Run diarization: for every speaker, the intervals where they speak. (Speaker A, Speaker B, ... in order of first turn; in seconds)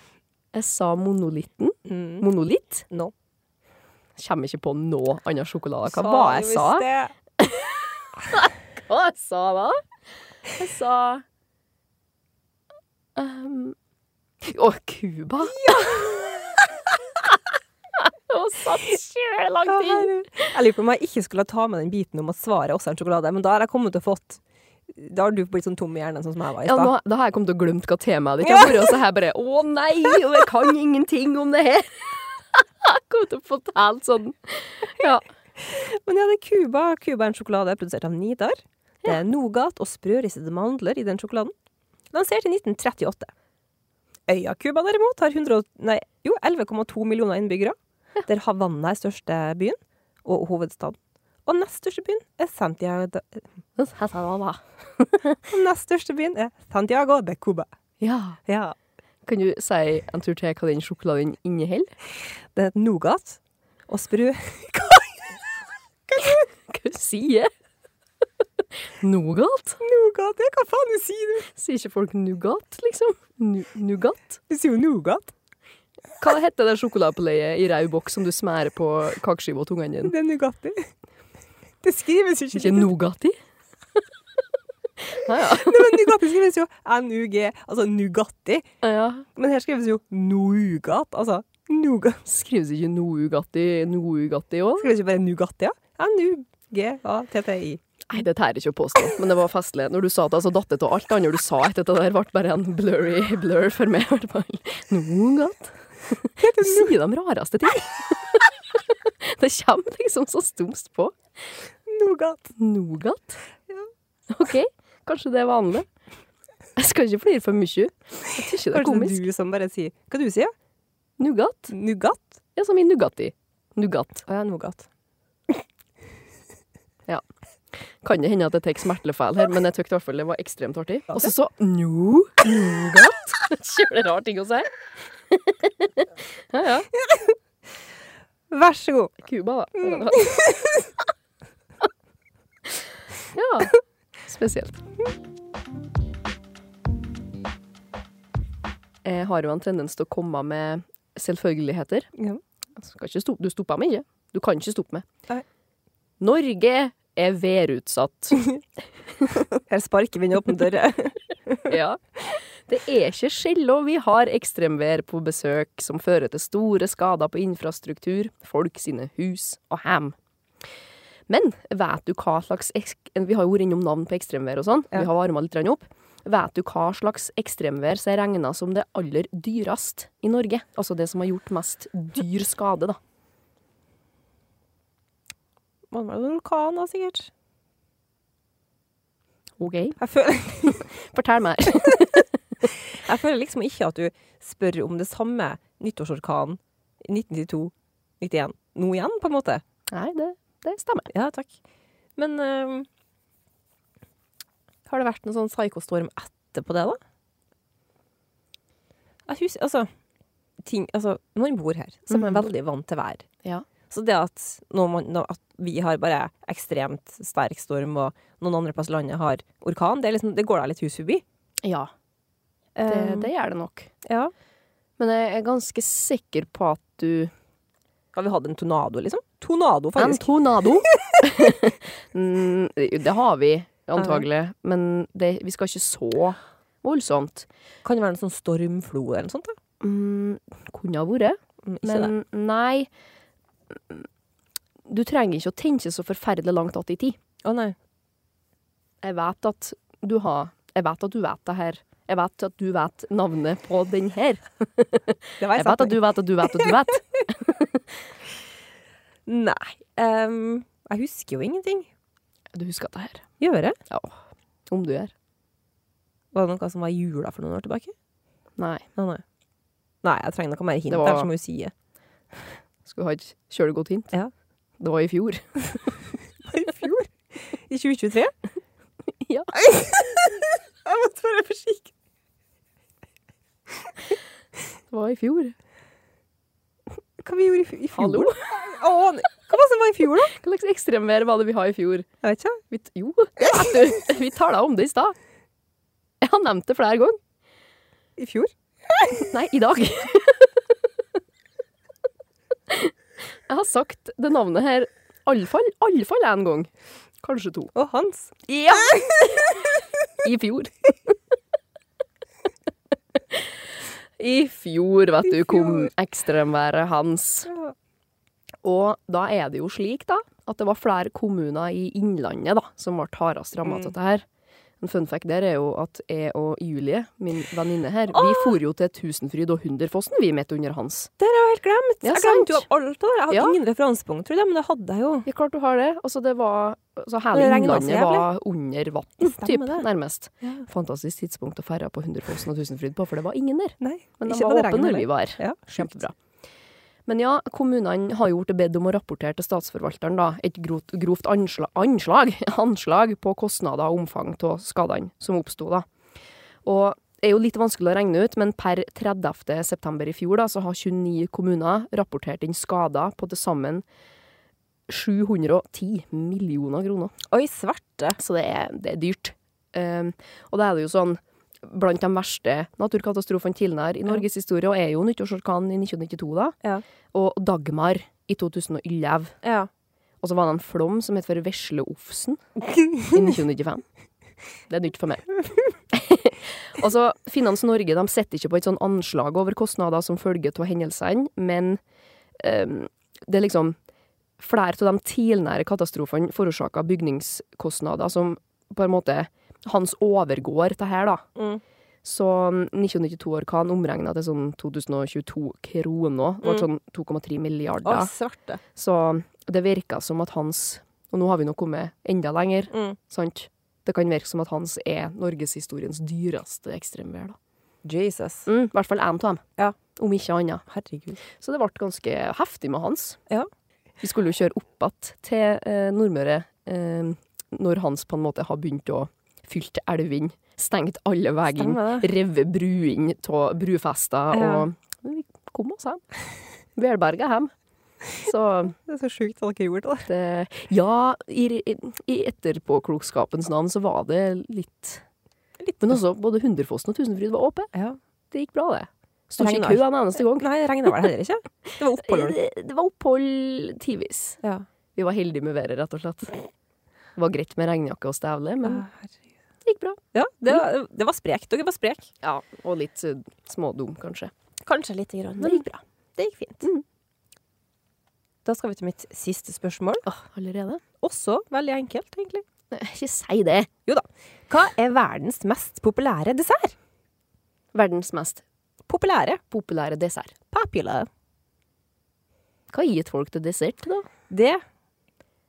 Speaker A: 0.5-2.9, 4.2-6.9, 7.4-9.8, 10.5-11.2, 13.2-13.8, 14.4-16.1, 17.9-20.5, 26.6-35.2, 53.8-55.4, 58.0-58.4, 59.2-61.9, 66.2-67.5, 69.0-69.8, 71.5-74.4, 76.2-80.1, 82.5-83.4, 85.1-86.1, 88.8-89.2, 92.2-94.9, 98.1-111.2, 112.5-113.4, 114.3-115.9, 116.8-119.2, 121.2-121.7, 122.5-124.2, 127.1-134.7, 135.3-136.9, 139.2-140.5, 143.3-144.8, 149.0-152.1, 152.8-155.1, 156.2-158.5, 161.7-170.2, 171.3-183.0, 189.6-190.0, 190.6-192.3, 199.9-201.1, 212.1-212.4, 221.6-221.9, 222.9-223.9, 225.0-227.3, 229.9-237.5, 239.8-242.9, 243.7-244.1, 244.9-247.2, 249.0-257.8, 262.5-263.3, 263.9-265.1, 268.6-268.9, 270.9-271.3, 272.8-274.1, 274.8-275.9, 279.2-279.6, 284.9-285.5, 287.9-288.4, 290.3-292.1, 292.7-295.1, 296.2-297.2, 299.1-300.5, 302.7-306.7, 307.2-307.7, 308.4-311.2, 314.2-317.5, 318.6-324.2, 324.8-331.1, 332.0-332.6, 333.3-333.6, 335.2-346.1, 347.1-355.9, 356.6-363.8, 364.9-367.1, 368.2-376.6, 377.1-379.4, 380.2-382.4, 383.0-383.8, 384.7-385.4, 385.9-391.8, 392.4-393.8, 394.4-401.3, 402.0-408.1, 408.7-417.4, 418.5-419.4, 419.9-420.6, 421.2-423.2, 424.0-436.0, 436.8-437.5, 438.1-438.8, 440.1-445.0, 445.8-447.7, 448.3-450.5, 451.7-454.4, 454.9-456.5, 457.1-458.9, 459.6-460.0, 462.2-464.3, 465.4-465.7, 470.0-470.8, 472.7-473.7, 477.7-478.4, 479.5-480.4, 482.7-484.1
Speaker B: 1.9-2.2, 5.8-7.1, 15.4-16.6, 19.7-26.9, 28.4-29.0, 30.1-30.4, 35.6-41.5, 42.1-43.3, 44.3-53.5, 55.5-57.7, 58.5-58.7, 62.5-65.4, 66.1-66.4, 69.8-71.5, 74.5-75.3, 80.0-80.9, 81.8-82.9, 85.4-88.7, 89.3-92.2, 94.8-97.8, 106.4-106.9, 111.9-112.5, 118.7-120.5, 121.7-122.4, 124.3-124.9, 136.9-137.3, 138.5-139.2, 139.8-140.9, 152.2-152.4, 159.7-161.8, 185.9-187.3, 190.0-190.8, 192.9-199.6, 201.1-201.5, 202.2-202.9, 204.9-207.0, 209.2-209.9, 210.6-213.2, 213.9-221.2, 222.8-223.3, 224.0-224.3, 228.1-231.4, 233.9-234.2, 237.8-239.6, 241.6-242.1, 247.4-247.8, 255.4-256.8, 259.2-261.9, 263.4-263.8, 266.3-267.9, 269.0-269.2, 270.0-271.7, 276.4-278.3, 279.5-281.9, 287.2-290.3, 292.2-292.6, 298.2-299.2, 307.7-308.3, 308.8-309.3, 315.4-315.9, 323.6-323.9, 328.1-328.6, 331.2-335.3, 337.3-338.3, 339.2-339.9, 343.8-346.0, 367.3-368.2, 379.4-379.7, 401.4-401.6, 407.8-408.6, 412.7-412.9, 417.8-418.5, 420.7-421.2, 431.6-432.1, 434.3-434.6, 438.8-440.1, 445.6-446.0, 449.4-452.4, 458.6-459.1, 460.1-462.1, 464.6-466.7, 468.4-470.0, 471.0-472.4, 473.9-476.7, 478.9-479.4, 480.5-481.1, 484.3-484.6